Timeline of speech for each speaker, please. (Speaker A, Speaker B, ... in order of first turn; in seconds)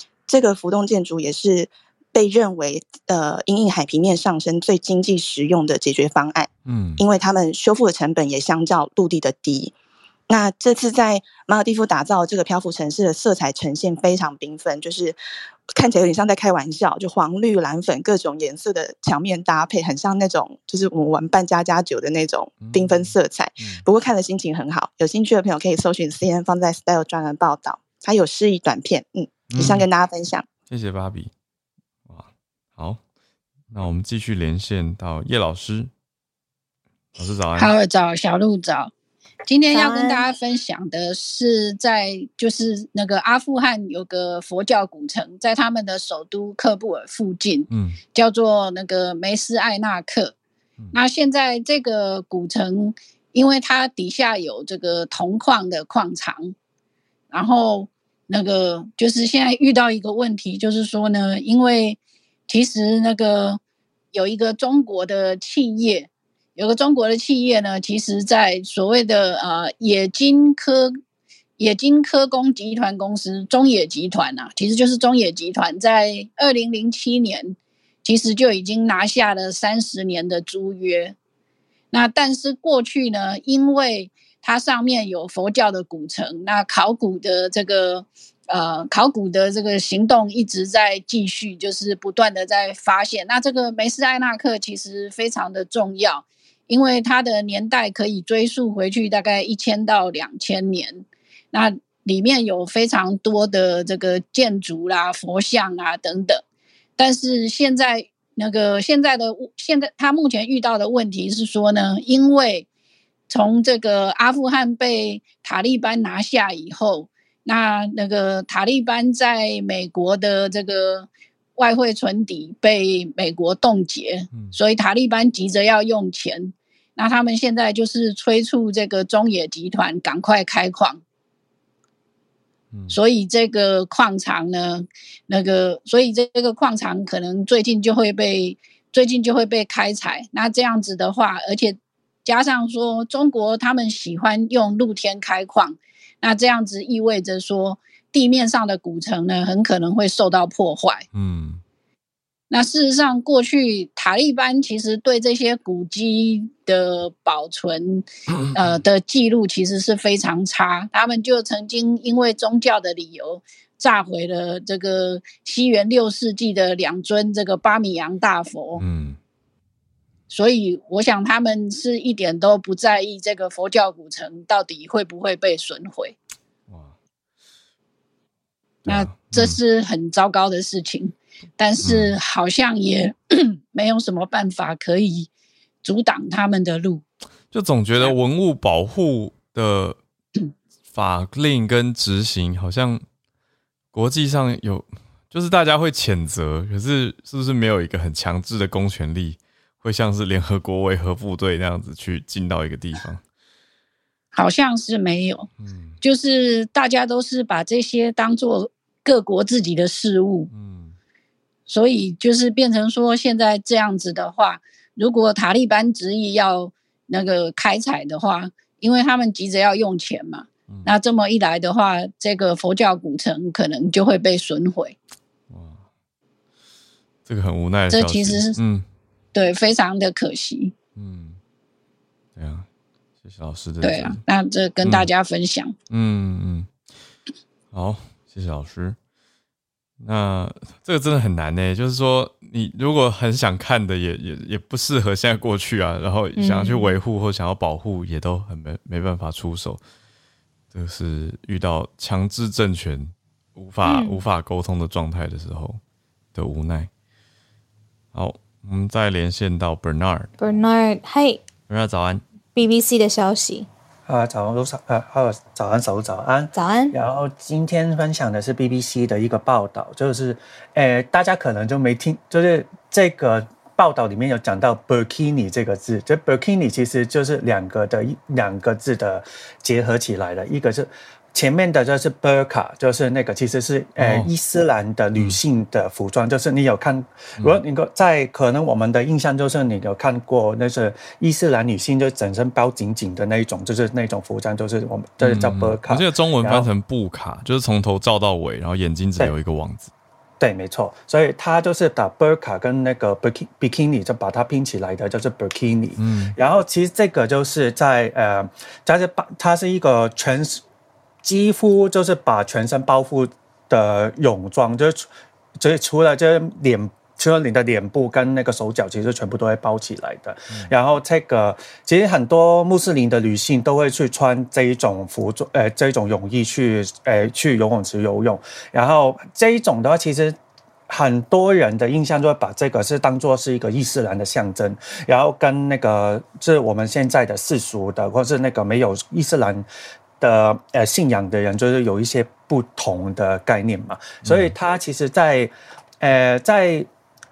Speaker A: 0.3-9.7, 10.3-15.2, 15.8-30.5
Speaker B: 6.7-7.0, 22.6-23.8, 29.5-29.9, 30.7-31.3, 32.1-33.0, 33.7-35.9, 37.1-37.7, 47.7-48.0, 132.7-133.0, 151.1-151.6, 168.8-169.2, 176.7-176.9, 178.8-179.6, 181.8-182.2, 187.5-190.0, 190.9-193.0, 193.9-203.2, 205.6-206.0, 210.5-211.0, 220.7-220.9, 225.5-225.8, 227.2-228.9, 231.0-231.4, 232.4-232.7, 233.2-234.2, 234.8-235.1, 235.9-236.7, 237.7-239.0, 240.0-249.8, 250.7-255.8, 256.4-256.9, 258.1-260.3, 261.7-262.2, 284.0-284.3, 295.2-299.9, 306.0-306.4, 344.2-344.5
Speaker C: 37.6-38.9, 39.5-50.4, 50.9-56.5, 57.3-63.6, 64.1-71.0, 71.6-81.1, 81.9-106.4, 107.0-112.7, 113.3-131.0, 132.9-151.0, 152.5-168.8, 170.3-176.2, 178.8-185.3, 185.8-187.0, 204.3-205.5, 206.0-210.5, 211.7-225.0, 227.9-228.6, 229.3-230.7, 233.8-235.8
Speaker D: 39.7-40.2, 246.4-247.0, 253.8-254.2, 260.4-261.4, 262.5-263.7, 266.5-267.0
Speaker E: 264.1-296.7, 300.4-310.6, 311.2-330.4, 330.9-339.6, 340.2-346.9